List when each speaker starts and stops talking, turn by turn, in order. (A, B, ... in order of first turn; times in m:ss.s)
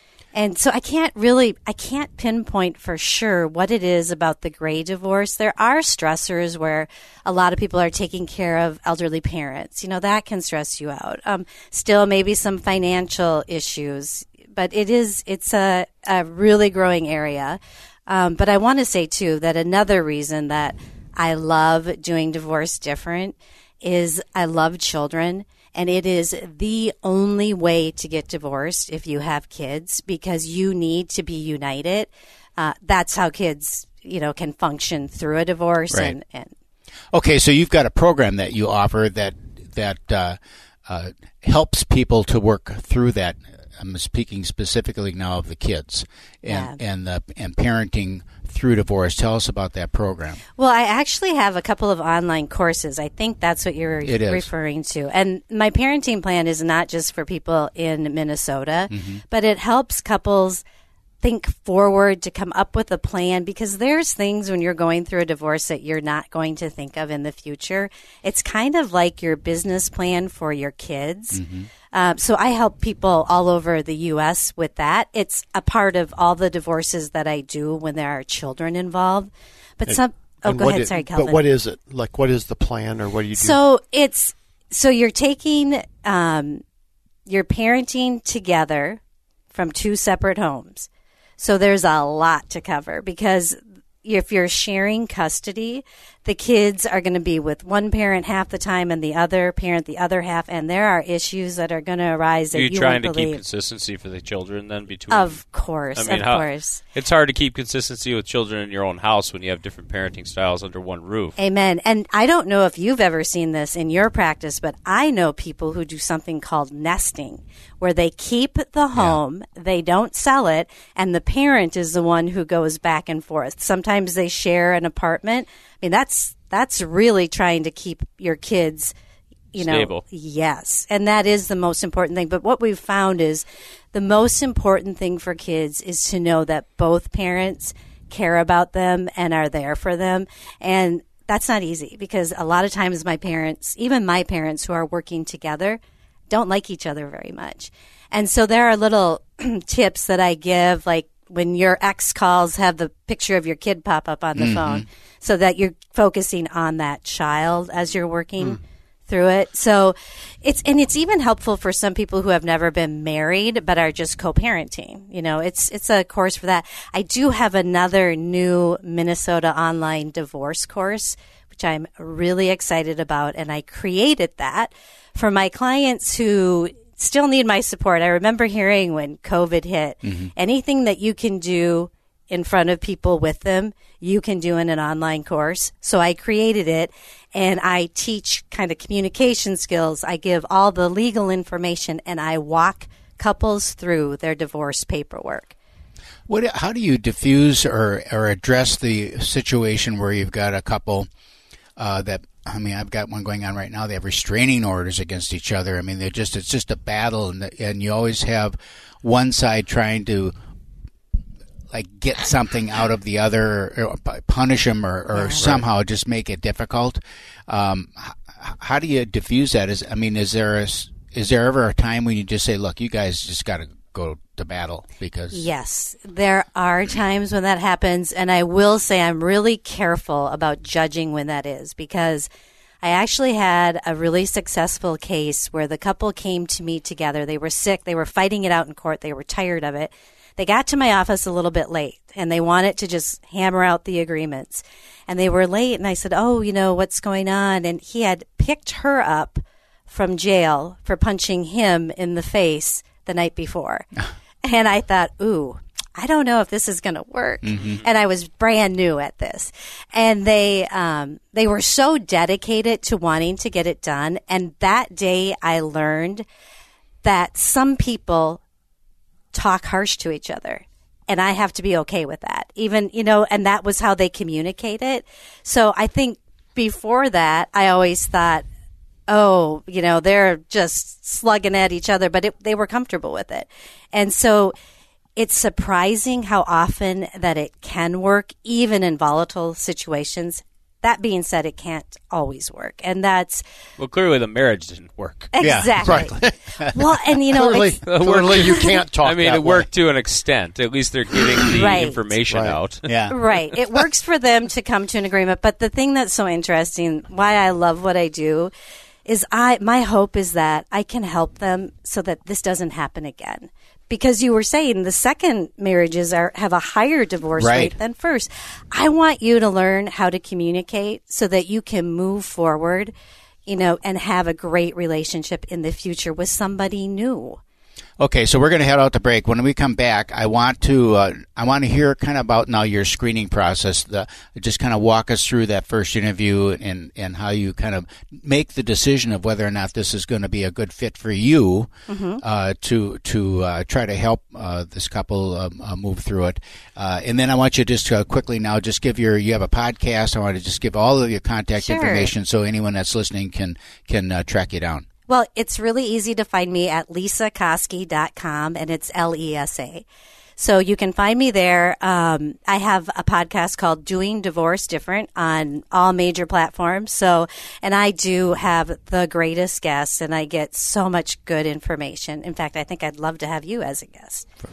0:00.3-0:36.5 A
0:35.9-0:36.2 B
0:37.1-0:50.4 B
0:46.4-0:46.8 A
0:50.6-1:00.6 A
0:54.0-0:54.5 B
0:58.9-0:59.2 B
1:01.2-1:11.4 A
1:11.3-1:11.7 B
1:11.9-1:21.4 A
1:19.9-1:23.6 C
1:23.3-1:26.6 A
1:27.3-1:29.0 A
1:29.5-1:30.9 A
1:31.4-1:43.4 A
1:42.5-1:51.4 D
1:45.1-1:46.8 A
1:51.4-2:08.9 A
2:09.5-3:15.5 A
2:09.6-2:10.0 D
2:34.4-2:34.8 B
3:00.0-3:00.3 B
3:16.3-3:21.1 B
3:21.8-3:30.3 B
3:31.7-3:45.5 B
3:35.1-3:35.6 A
3:45.3-3:52.3 A
3:52.8-4:13.9 A
4:14.4-4:26.2 A
4:17.4-4:17.8 B
4:27.0-4:28.4 A
4:29.3-4:38.4 A
4:39.1-4:44.5 A
4:45.2-4:53.4 A
4:53.8-4:56.1 D
4:55.3-4:56.2 A
4:55.4-4:56.1 B
4:56.7-4:57.8 A
4:57.3-4:59.7 C
4:57.6-5:03.5 D
4:58.4-4:58.8 A
5:01.5-5:02.1 A
5:02.3-5:02.6 C
5:02.8-5:03.2 B
5:03.1-5:08.5 A
5:09.0-5:22.9 A
5:17.4-5:17.7 B
5:23.4-5:27.4 A
5:28.0-5:41.7 B
5:41.9-5:42.2 A
5:42.2-5:54.8 B
5:51.6-5:52.1 A
5:55.1-5:59.8 A
6:00.4-6:14.2 A